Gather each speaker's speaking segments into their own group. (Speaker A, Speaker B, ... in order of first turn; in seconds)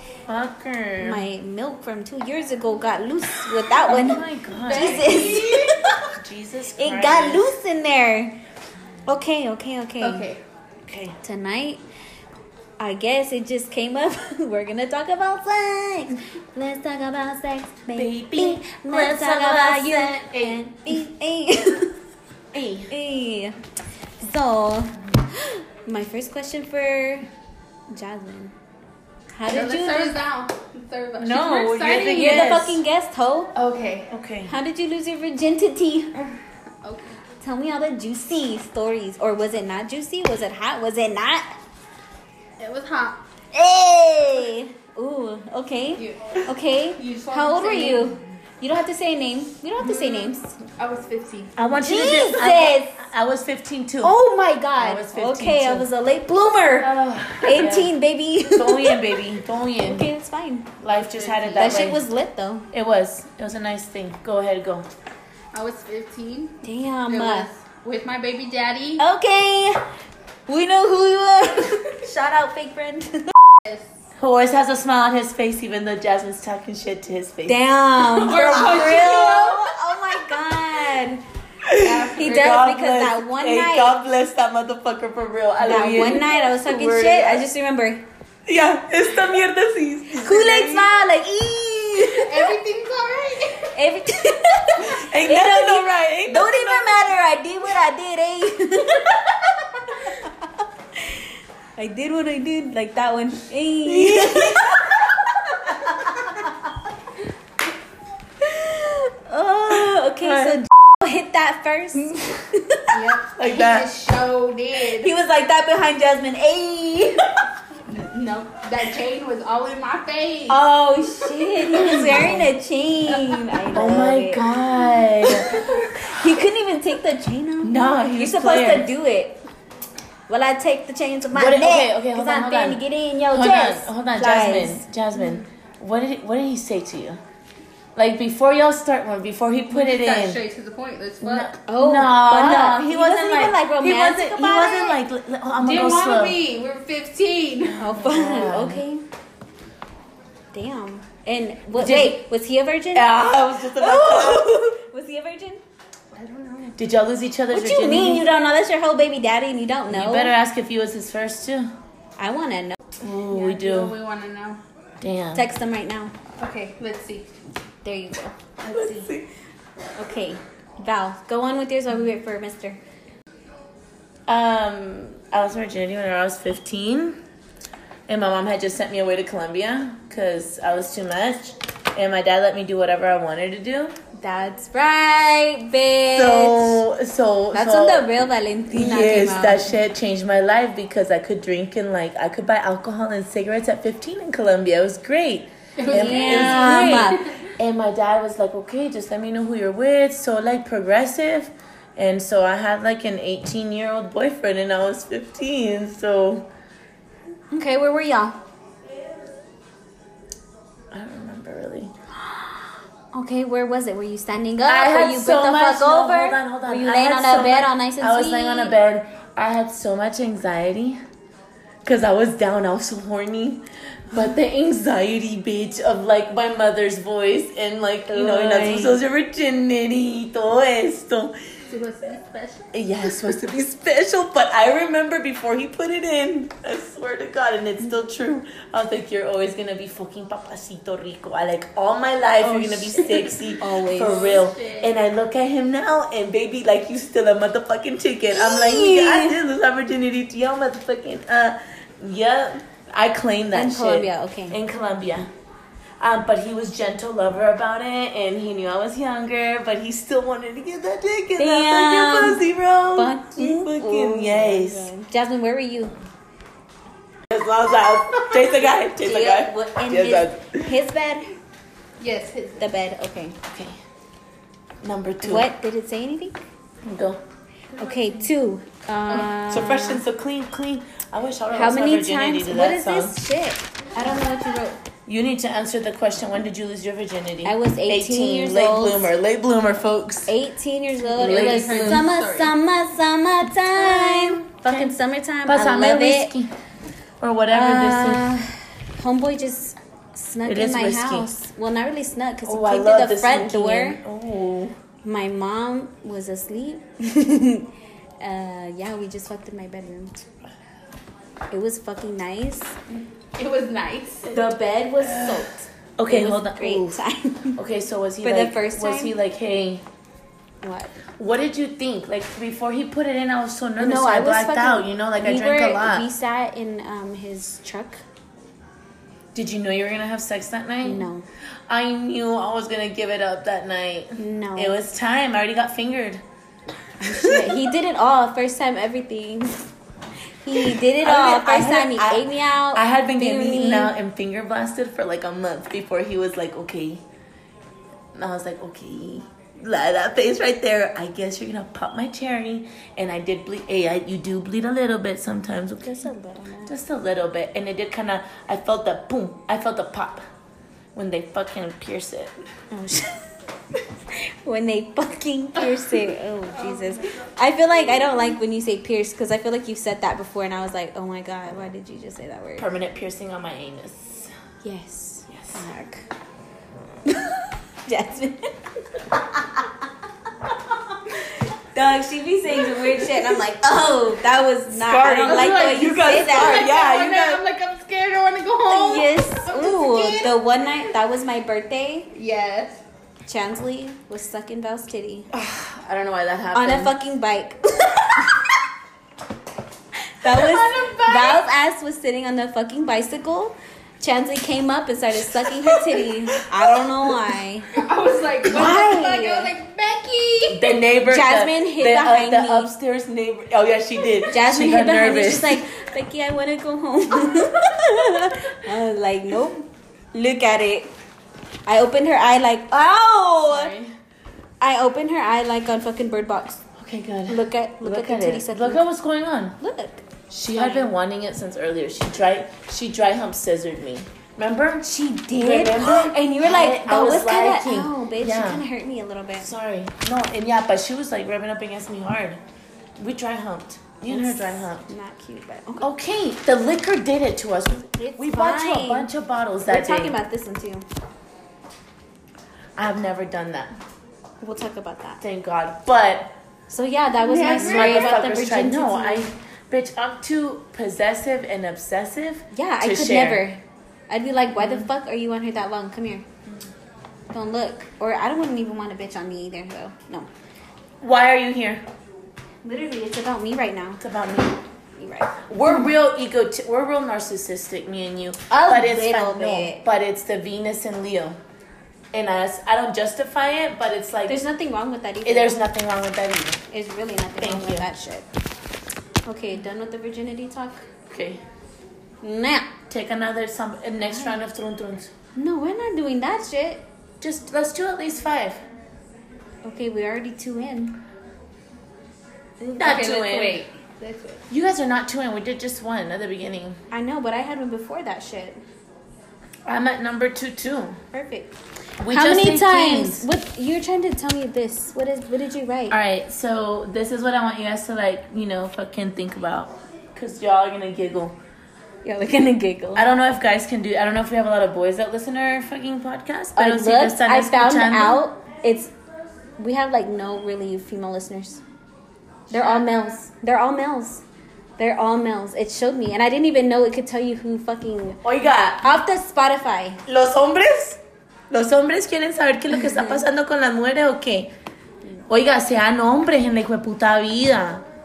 Speaker A: 0.3-1.2, 3.6-5.6, 6.1-7.6, 10.8-11.2, 17.9-20.6, 22.5-22.9, 31.2-32.8, 34.1-34.5, 51.6-54.1, 54.8-55.9, 56.8-57.9, 58.4-60.1, 60.8-62.0, 62.7-64.9, 74.2-77.6, 81.6-87.5, 88.5-90.9, 94.8-97.0, 103.8-105.3, 109.7-110.6, 113.4-113.9, 121.7-122.5, 123.7-125.6, 127.6-128.9, 131.3-137.2, 137.9-140.4, 141.2-146.4, 147.9-148.8, 151.8-152.2, 152.9-154.8, 156.8-158.3, 159.9-161.7, 163.0-163.9, 165.0-165.5, 168.7-169.3, 174.3-177.2, 178.1-183.9, 186.1-188.1, 188.7-206.5, 210.9-211.9, 214.6-221.0, 221.8-231.3, 232.7-255.3, 256.0-264.9, 267.3-270.7, 273.5-273.8, 274.8-275.5, 276.8-277.2, 279.1-283.2, 285.1-290.3, 291.1-292.1, 293.7-294.9, 295.5-296.5, 297.2-298.3, 300.4-301.3, 302.4-304.8, 314.2-317.0, 317.6-319.8, 321.2-326.1, 329.3-331.1, 331.7-336.2, 337.0-337.6, 340.7-347.0, 348.1-356.1, 356.7-360.2, 360.9-362.4, 372.6-374.3, 375.3-375.6, 382.6-383.4, 384.7-387.4, 395.3-396.9, 405.3-407.3, 410.5-415.6, 423.5-423.9, 426.8-429.6, 430.3-434.8, 435.4-438.6, 439.4-442.4, 443.0-444.9, 445.8-450.1, 452.8-453.7, 455.2-456.3, 457.5-463.4, 464.6-464.9, 471.0-471.8, 474.0-474.6, 475.5-481.4, 482.1-484.4, 485.2-486.6, 487.4-487.9, 491.1-491.4, 492.9-495.1, 497.2-498.6, 502.6-503.6, 504.5-506.8, 509.6-511.0, 512.0-513.2, 515.9-521.4, 523.0-528.2, 532.5-532.8, 538.2-538.9, 540.0-544.5, 545.3-547.8
Speaker B: 1.0-6.1, 6.8-8.4, 9.1-10.3, 11.2-11.8, 12.8-21.9, 22.9-23.6, 24.2-27.3, 27.9-28.5, 29.3-30.2, 32.1-33.5, 34.5-36.1, 37.4-41.5, 43.5-50.6, 51.8-53.0, 54.0-59.2, 59.8-60.7, 61.6-62.7, 66.6-67.5, 69.0-69.8, 70.5-73.3, 77.5-81.2, 82.1-83.9, 85.6-88.0, 90.1-92.5, 93.6-106.5, 108.4-113.0, 114.9-117.2, 120.5-124.6, 125.2-129.4, 130.3-134.9, 141.7-145.0, 147.8-149.0, 150.5-155.6, 157.5-160.3, 162.2-162.8, 165.3-166.1, 167.8-169.1, 169.9-172.8, 184.2-186.8, 187.5-189.7, 195.9-197.3, 207.5-208.4, 212.3-212.6, 213.1-218.7, 228.1-229.0, 242.4-244.2, 248.3-249.4, 253.5-254.6, 261.4-265.9, 269.0-271.3, 272.6-273.4, 275.2-276.4, 277.8-280.0, 281.5-284.8, 287.4-289.1, 290.3-296.3, 297.5-304.0, 305.0-307.7, 308.2-310.2, 311.5-312.8, 314.3-317.6, 318.2-319.1, 320.6-320.9, 323.8-328.0, 330.8-331.2, 334.2-334.8, 337.1-339.6, 340.4-343.9, 355.8-356.8, 362.7-363.3, 364.1-372.7, 374.6-376.1, 377.1-378.5, 379.1-379.8, 380.5-386.6, 388.7-392.1, 393.2-395.3, 396.5-398.4, 400.2-407.7, 408.5-409.5, 411.1-412.7, 414.3-420.9, 421.6-423.7, 424.6-426.6, 427.3-428.9, 429.6-430.9, 434.8-439.5, 444.1-445.9, 447.9-449.1, 449.7-450.9, 454.4-455.2, 456.7-459.3, 462.5-466.2, 467.3-470.3, 472.6-474.0, 474.9-475.4, 478.5-479.8, 484.3-485.6, 486.7-488.2, 489.2-490.9, 492.2-492.7, 495.3-496.8, 499.6-501.0, 506.9-508.6, 511.1-511.5, 512.0-516.0, 522.0-523.1, 526.5-528.9, 529.6-531.6, 532.5-534.2, 534.8-538.2, 538.8-540.0, 542.8-543.2
Speaker C: 4.7-5.8, 10.0-10.4, 29.5-32.6, 33.5-34.1, 36.8-37.2, 42.6-43.2, 46.0-46.4, 47.0-48.1, 49.8-51.6, 60.9-62.0, 65.5-69.0, 78.0-79.7, 81.8-82.5, 92.1-93.7, 112.9-115.1, 117.9-120.6, 121.7-122.3, 123.1-123.4, 125.5-125.9, 139.7-141.5, 145.6-147.8, 156.1-156.8, 163.3-164.6, 166.4-167.3, 195.8-197.3, 231.7-232.7, 243.9-244.9, 272.0-272.6, 291.1-292.5, 313.4-314.3, 365.6-365.9, 366.5-367.2, 385.2-390.3, 392.1-392.8, 400.3-401.4, 407.8-410.6, 457.2-458.1, 502.8-504.4